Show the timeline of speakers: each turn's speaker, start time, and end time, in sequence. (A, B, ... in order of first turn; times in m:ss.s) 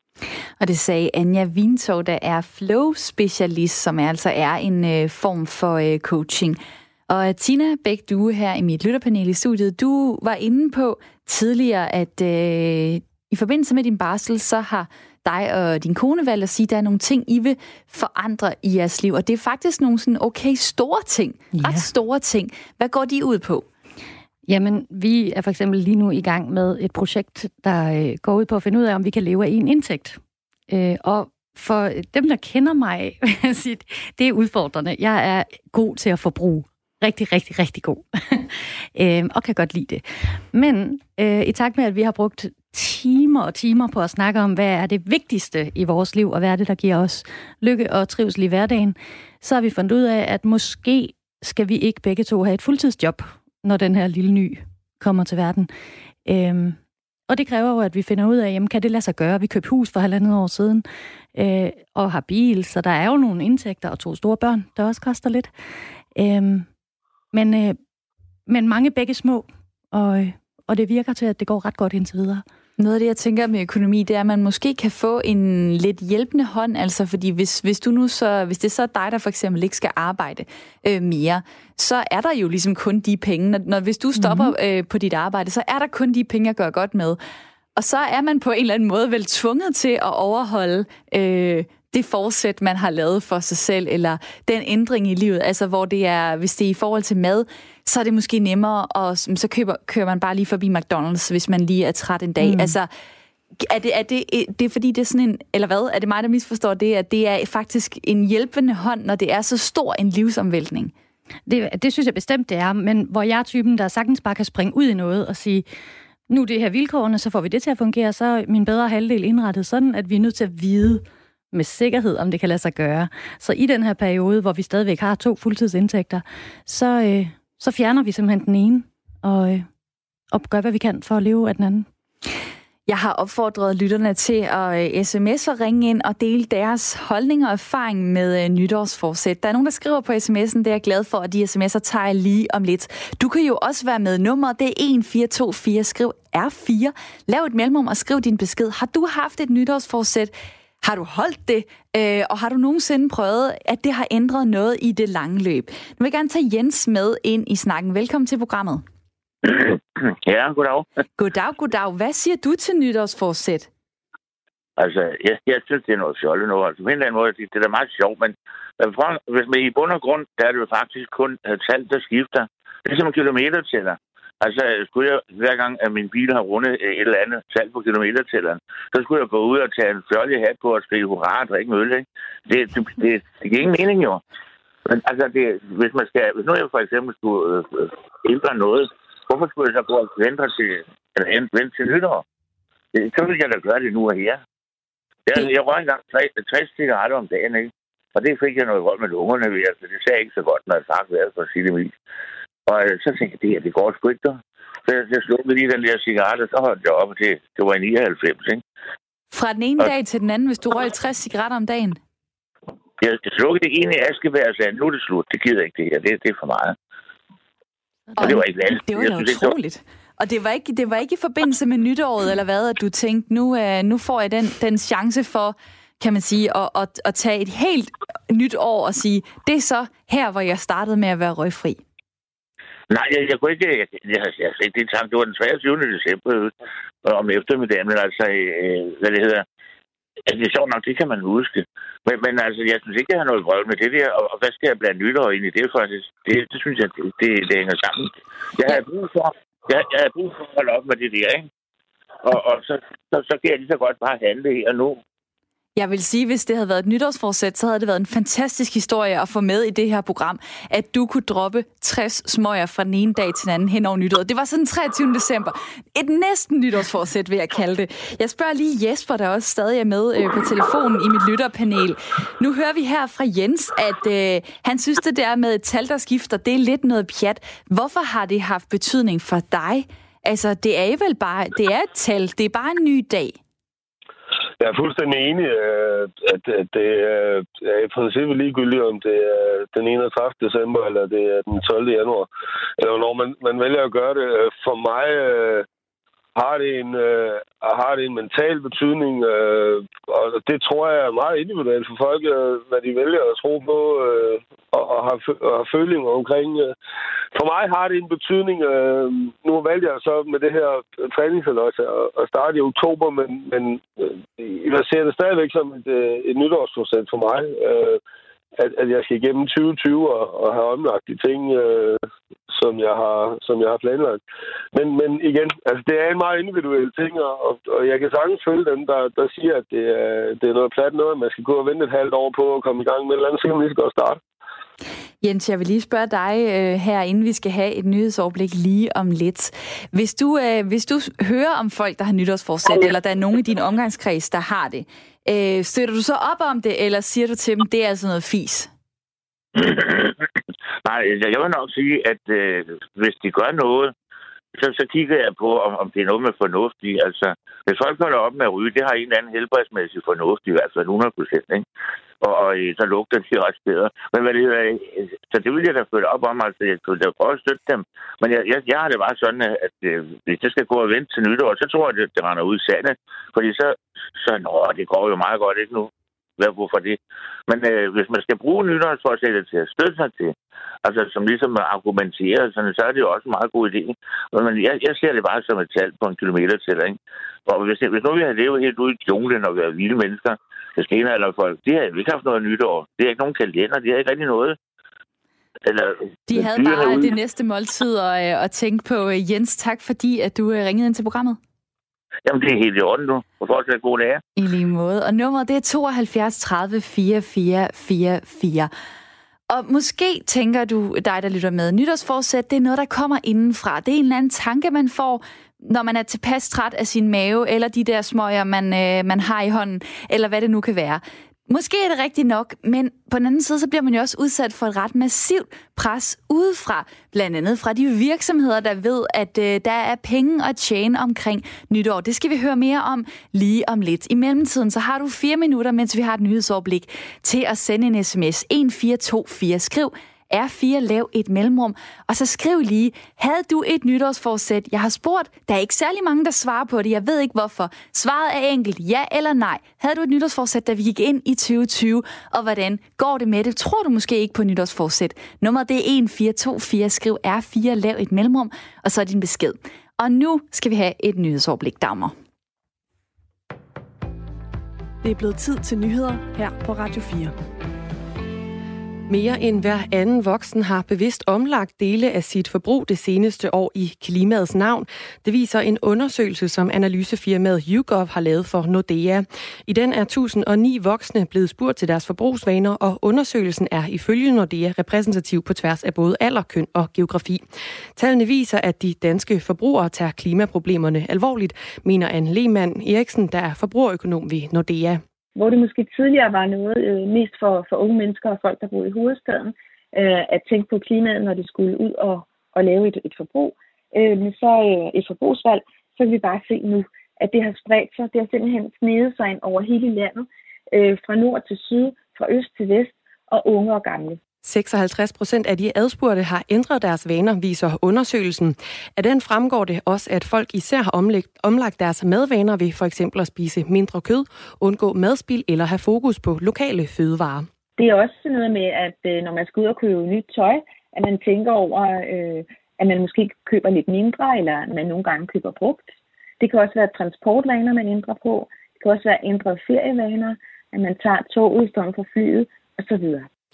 0:00.6-0:23.7 A
0:21.5-0:21.9 B
0:24.5-0:55.7 B
0:56.2-0:56.8 B
0:57.3-1:05.5 B
1:06.2-1:06.7 B
1:07.3-1:07.8 B
1:08.5-1:12.4 B
1:12.8-1:27.2 A
1:24.2-1:24.6 B
1:27.8-1:42.9 A
1:42.4-1:42.8 B
1:43.6-1:50.9 A
1:51.5-1:55.7 B
1:56.3-2:09.7 B
2:10.3-2:11.9 B
2:12.9-2:30.3 A
2:30.8-2:38.8 A
2:39.4-2:40.9 C
2:41.2-2:43.7 A
2:44.8-3:04.2 C
3:04.9-3:12.2 C
3:13.0-3:14.4 C
3:15.3-3:21.9 C
3:22.7-3:28.6 C
3:29.3-3:32.0 A
3:33.0-3:36.8 C
3:38.2-3:51.8 A
3:38.2-3:39.5 C
3:52.9-3:56.5 C
3:57.0-3:59.4 C
4:00.3-4:11.5 C
4:12.2-4:15.0 C
4:15.8-4:43.4 A
4:44.6-4:55.7 D
4:56.4-5:06.7 D
5:07.3-5:18.0 D
5:18.6-5:24.2 D
5:24.7-5:34.2 D
5:35.2-5:48.7 A
5:49.6-5:50.2 C
5:50.8-5:53.9 C
5:54.6-6:01.6 C
6:02.2-6:20.3 C
6:20.8-6:34.6 C
6:35.6-6:37.1 C
6:36.3-6:41.4 A
6:42.3-6:44.2 C
6:44.4-6:48.7 A
6:49.5-7:42.1 A
7:45.0-7:47.4 E
7:49.1-8:07.4 F
8:08.0-8:15.0 F
8:15.4-8:34.2 G
8:34.4-8:47.5 F
8:47.8-9:03.3 G